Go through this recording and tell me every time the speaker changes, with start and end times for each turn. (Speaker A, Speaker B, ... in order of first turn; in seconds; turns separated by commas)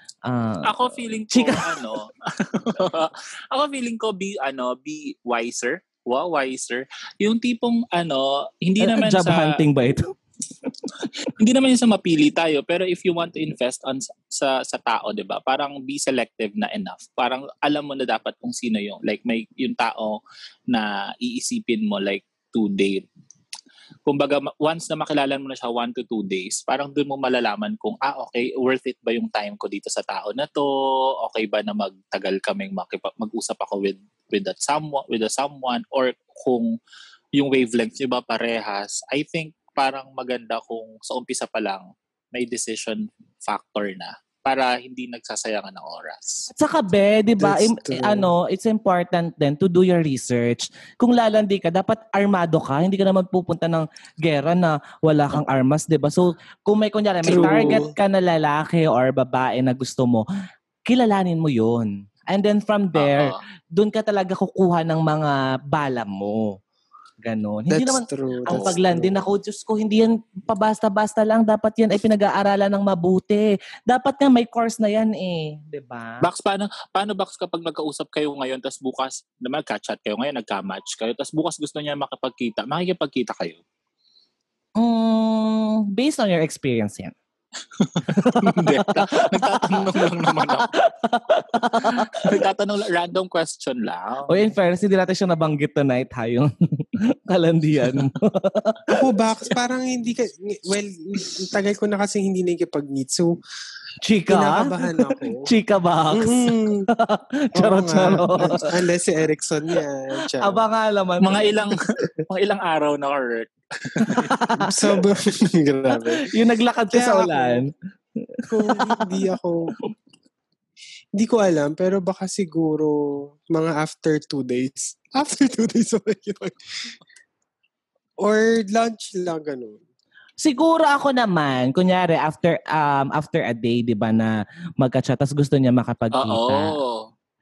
Speaker A: 0.3-1.9, Speaker B: 0.6-9.6, Speaker A: 8.8-10.1, Speaker B: 11.3-23.1, Speaker B: 24.1-36.8, Speaker B: 37.4-46.5, Speaker A: 46.5-60.2, Speaker C: 47.4-48.3, Speaker C: 57.2-57.9, Speaker B: 57.3-57.8, Speaker A: 60.9-66.6, Speaker B: 63.0-63.4, Speaker A: 67.2-76.3, Speaker C: 67.7-69.2, Speaker B: 76.2-83.6, Speaker A: 84.8-87.1, Speaker B: 87.8-90.7, Speaker A: 88.1-92.4, Speaker B: 91.9-94.5, Speaker A: 94.3-98.9, Speaker C: 98.9-103.3, Speaker A: 104.0-108.7, Speaker C: 104.3-105.5, Speaker C: 106.1-106.9, Speaker C: 107.5-110.6, Speaker A: 110.4-111.6, Speaker B: 111.2-114.3, Speaker A: 114.0-114.7, Speaker C: 114.6-116.3, Speaker A: 116.0-117.7, Speaker C: 116.9-117.7, Speaker A: 118.4-119.2, Speaker C: 118.5-119.7, Speaker C: 121.2-127.0, Speaker C: 128.2-129.8, Speaker A: 130.4-136.8, Speaker B: 136.1-137.1